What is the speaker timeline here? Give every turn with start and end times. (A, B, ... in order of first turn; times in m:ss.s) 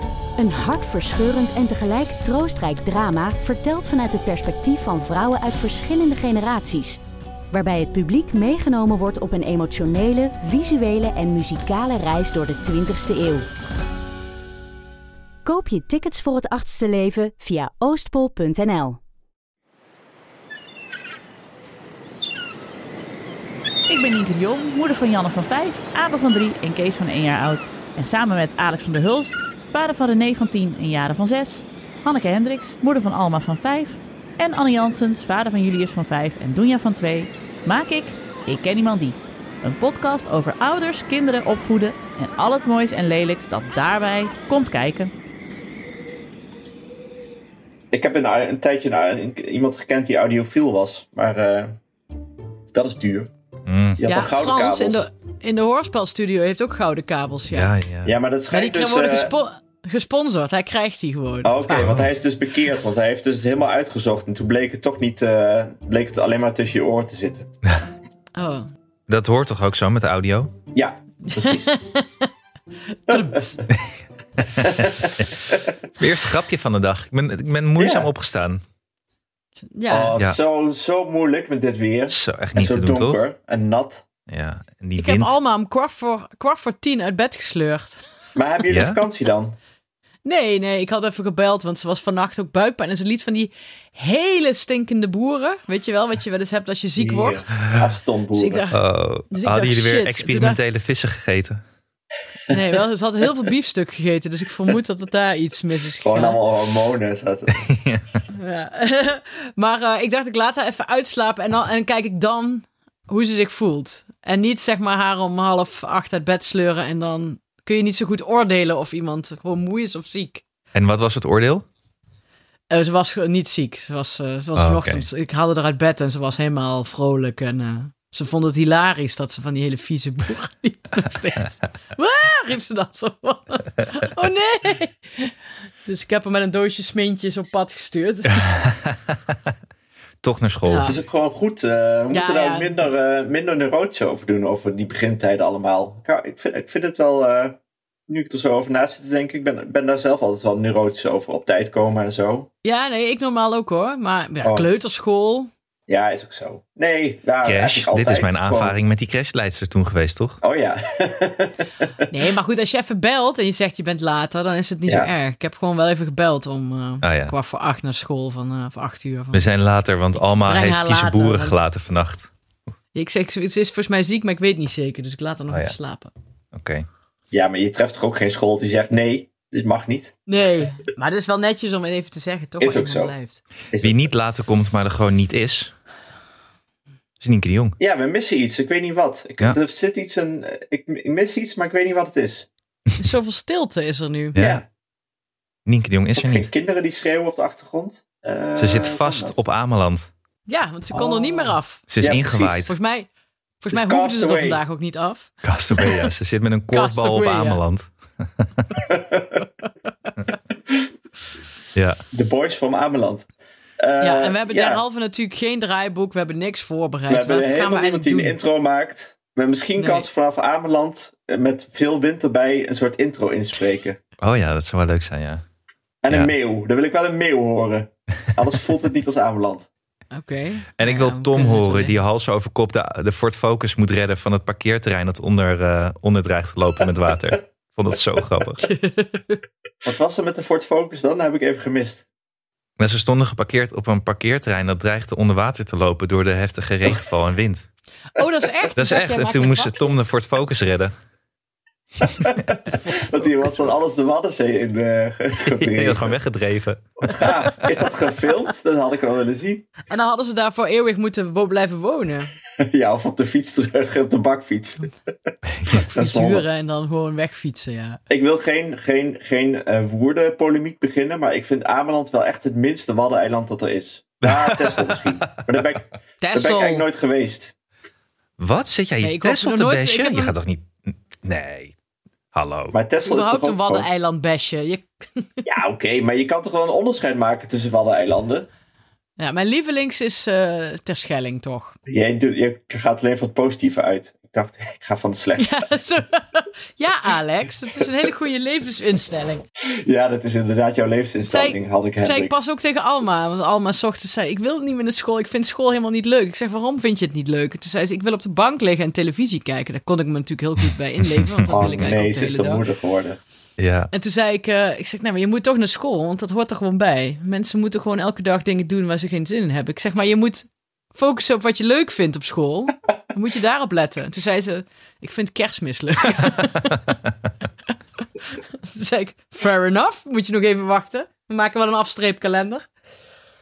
0:00.4-0:07.0 A
0:07.5-0:13.5 A
0:15.4-0:19.0 A
0:23.9-0:45.1 B
0:47.9-0:51.8 C
0:52.7-0:53.3 C
0:53.7-0:54.0 D
0:54.0-0:55.0 C
0:54.0-0:57.7 E
0:57.5-0:58.2 D
0:58.0-0:59.3 C
0:58.5-1:02.0 E
1:01.4-1:07.5 C
1:01.7-1:02.1 D
1:08.4-1:08.7 E
1:09.1-1:10.5 D
1:10.7-1:11.8 C
1:11.2-1:12.3 E
1:12.9-1:13.6 E
1:13.1-1:13.6 C
1:13.7-1:18.6 D
1:14.6-1:15.6 C
1:17.8-1:18.1 C
1:19.6-1:20.2 E
1:19.9-1:24.1 C
1:22.1-1:23.2 D
1:24.3-1:25.3 D
1:25.0-1:28.0 E
1:28.4-1:29.6 C
1:28.7-1:29.0 D
1:30.2-1:37.6 E
1:37.0-1:38.7 C
1:38.3-1:40.6 E
1:38.7-1:41.6 D
1:42.5-1:46.4 E
1:46.0-1:47.6 C
1:47.6-1:48.2 D
1:48.3-2:00.4 E
2:00.7-2:01.7 D
2:02.7-2:15.3 E
2:04.6-2:05.0 D
2:15.8-2:18.5 E
2:18.4-2:19.3 D
2:20.2-2:21.0 D
2:20.6-2:21.0 E
2:20.8-2:27.6 C
2:22.1-2:22.9 E
2:28.1-2:32.5 C
2:32.6-2:35.5 E
2:34.4-2:34.7 C
2:35.9-2:38.8 C
2:37.4-2:40.4 D
2:40.4-2:42.1 C
2:42.1-2:49.4 E
2:44.9-2:45.1 C
2:47.0-2:47.3 D
2:49.3-2:52.3 D
2:50.4-2:51.6 E
2:52.9-2:56.1 E
2:56.5-2:56.9 D
2:57.3-3:00.2 C
3:00.3-3:03.4 E
3:02.6-3:03.1 C
3:03.7-3:04.1 C
3:03.8-3:05.7 D
3:07.2-3:07.8 D
3:07.8-3:12.5 C
3:13.0-3:14.4 E
3:14.4-3:14.6 D
3:14.4-3:14.6 C
3:15.7-3:16.5 D
3:16.2-3:19.3 C
3:18.6-3:20.1 D
3:20.5-3:21.9 E
3:20.9-3:22.7 C
3:21.9-3:22.7 D
3:22.7-3:23.1 E
3:23.6-3:26.0 E
3:23.7-3:24.6 C
3:25.4-3:28.7 D
3:26.7-3:27.6 E
3:28.9-3:29.4 C
3:31.8-3:32.0 D
3:32.1-3:33.3 C
3:33.8-3:34.8 C
3:34.0-3:38.4 E
3:37.1-3:44.0 C
3:39.8-3:40.1 E
3:44.2-3:45.4 D
3:46.0-3:49.7 C
3:50.1-3:52.0 E
3:50.8-3:58.7 D
3:58.6-3:59.4 E
3:59.8-4:02.0 C
4:02.8-4:07.7 D
4:08.2-4:10.0 E
4:08.7-4:10.9 D
4:12.0-4:16.2 C
4:12.7-4:13.7 E
4:15.5-4:17.3 D
4:17.0-4:19.7 C
4:19.9-4:22.3 E
4:22.6-4:25.3 C
4:25.5-4:25.8 D
4:25.7-4:28.0 E
4:25.9-4:26.4 C
4:28.1-4:37.5 C
4:34.3-4:34.9 D
4:36.2-4:36.9 E
4:38.4-4:41.7 D
4:39.0-4:40.4 E
4:42.3-4:42.8 D
4:42.7-4:43.9 C
4:43.0-4:45.4 E
4:45.5-4:48.5 C
4:49.2-4:51.8 E
4:51.9-4:55.7 C
4:55.4-4:59.4 E
4:59.7-5:02.4 C
5:01.2-5:12.6 E
5:11.3-5:11.9 D
5:11.5-5:13.2 C
5:13.6-5:13.9 D
5:13.9-5:26.8 E
5:28.3-5:32.7 E